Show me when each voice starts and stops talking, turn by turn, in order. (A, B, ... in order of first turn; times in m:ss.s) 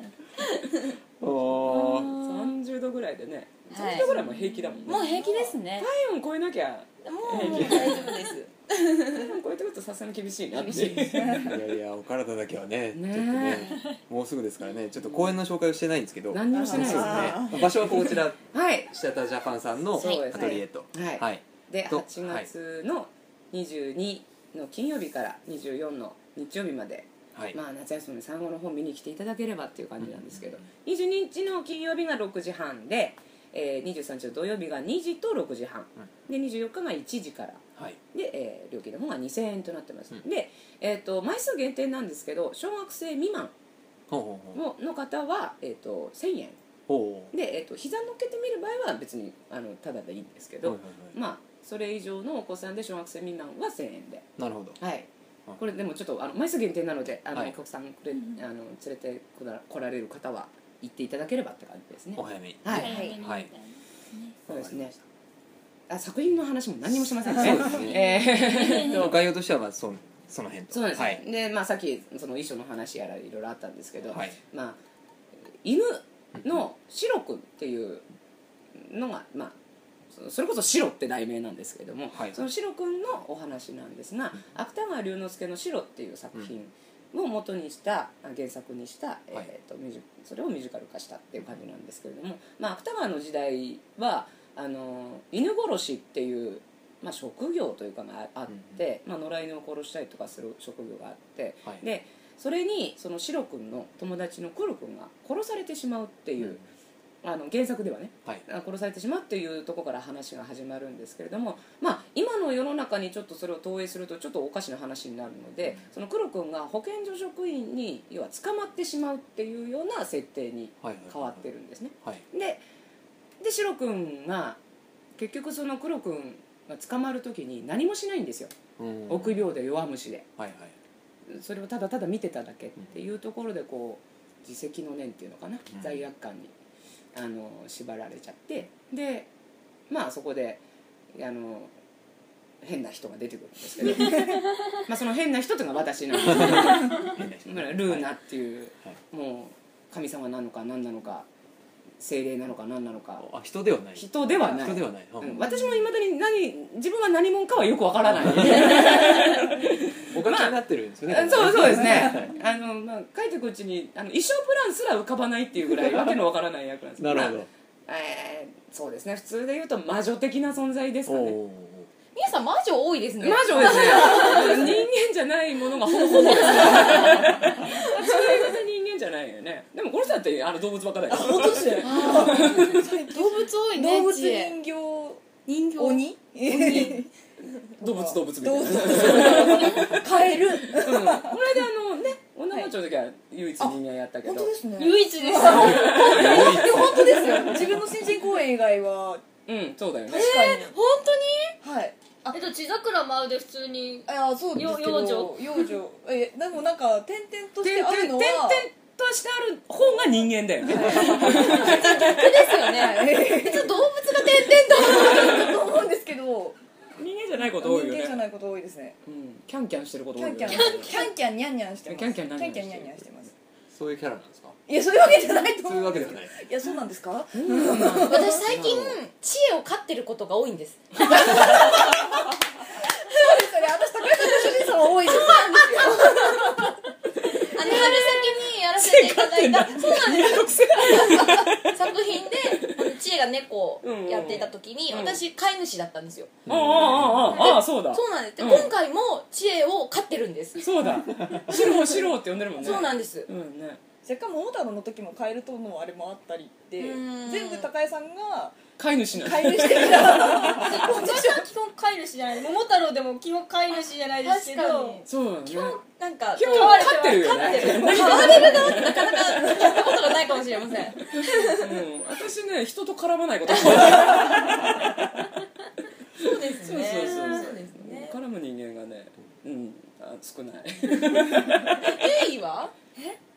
0:01.2-0:02.2 A
0:01.8-0:08.1 B
0:03.7-0:04.1 C
0:04.8-0:05.9 C
0:05.1-0:05.5 D
0:07.0-0:09.4 C
0:07.4-0:07.8 D
0:07.5-0:07.8 A
0:09.1-0:11.5 B
0:10.6-0:11.5 D
0:10.7-0:18.4 A
0:12.9-0:13.8 B
0:15.0-0:15.4 B
0:16.3-0:18.9 B
0:16.5-0:18.1 D
0:18.9-0:22.5 A
0:20.0-0:43.5 B
0:20.0-0:20.6 C
0:20.3-0:20.6 D
0:30.0-0:30.6 A
0:44.1-0:44.6 A
0:44.6-0:46.6 B
0:46.9-0:47.3 A
0:47.3-0:54.3 B
0:50.6-0:51.2 A
0:54.4-0:54.8 A
0:54.8-1:03.0 B
0:58.2-0:58.4 E
1:02.2-1:03.5 A
1:02.7-1:04.4 E
1:02.7-1:03.2 C
1:04.5-1:05.0 A
1:04.5-1:04.9 B
1:05.9-1:09.2 B
1:07.3-1:08.0 A
1:07.7-1:09.1 E
1:08.8-1:11.2 A
1:10.7-1:14.8 B
1:14.0-1:14.4 A
1:15.6-1:18.0 B
1:18.8-1:19.6 B
1:20.1-1:46.6 B
1:22.1-1:22.4 A
1:38.5-1:38.8 A
1:46.4-1:46.6 A
1:47.2-2:02.6 B
2:00.8-2:01.5 A
2:03.4-2:04.6 B
2:05.2-2:08.5 B
2:08.8-2:09.4 A
2:09.1-2:10.3 B
2:10.4-2:10.8 A
2:11.3-2:16.5 B
2:15.7-2:16.0 A
2:17.2-2:19.3 B
2:19.9-2:20.6 B
2:21.1-2:21.7 B
2:22.6-2:31.3 B
2:24.0-2:24.8 E
2:26.2-2:28.1 A
2:26.4-2:27.1 E
2:32.0-2:33.3 B
2:33.2-2:35.3 A
2:34.0-2:40.6 B
2:35.3-2:35.8 E
2:38.1-2:39.3 A
2:40.1-2:42.3 A
2:41.1-2:51.4 B
2:47.0-2:47.5 A
2:51.1-2:51.9 A
2:52.1-2:54.8 C
2:53.2-3:02.9 B
2:53.6-2:54.4 D
2:56.0-2:58.2 C
3:01.1-3:07.1 D
3:01.8-3:04.6 C
3:05.5-3:06.0 C
3:06.5-3:07.0 B
3:06.6-3:06.9 C
3:07.8-3:11.4 D
3:07.8-3:10.0 B
3:09.0-3:10.0 C
3:10.7-3:14.5 B
3:13.6-3:19.2 D
3:14.8-3:16.8 E
3:15.6-3:17.5 A
3:19.5-3:20.3 B
3:20.1-3:20.7 D
3:20.1-3:21.6 C
3:21.6-3:22.4 D
3:22.3-3:25.6 E
3:24.1-3:28.7 D
3:27.6-3:32.3 B
3:30.6-3:36.6 D
3:30.8-3:35.7 C
3:37.0-3:38.3 B
3:37.4-3:39.0 D
3:39.0-3:41.0 B
3:40.2-3:43.3 D
3:40.8-3:41.1 C
3:41.8-3:43.1 B
3:43.7-3:44.6 A
3:44.7-3:48.4 D
3:45.6-3:46.4 A
3:47.3-3:49.0 B
3:48.0-3:52.2 C
3:51.1-3:52.3 D
3:52.9-3:56.7 D
3:53.1-3:53.5 C
3:54.2-3:56.8 C
3:57.3-4:06.4 C
3:57.6-3:58.0 D
3:57.6-4:02.9 B
4:03.8-4:05.2 B
4:06.5-4:07.4 A
4:06.5-4:08.7 B
4:07.3-4:10.8 C
4:10.6-4:13.8 B
4:12.6-4:13.3 C
4:14.0-4:18.6 D
4:16.8-4:17.7 C
4:18.8-4:20.6 B
4:19.1-4:21.3 D
4:20.4-4:25.1 E
4:20.8-4:21.4 C
4:24.2-4:31.7 C
4:25.1-4:25.8 B
4:26.4-4:29.3 B
4:26.4-4:28.8 E
4:27.6-4:29.9 D
4:31.2-4:34.7 B
4:36.2-4:38.2 C
4:36.6-4:41.8 B
4:37.0-4:37.5 E
4:41.8-4:42.7 C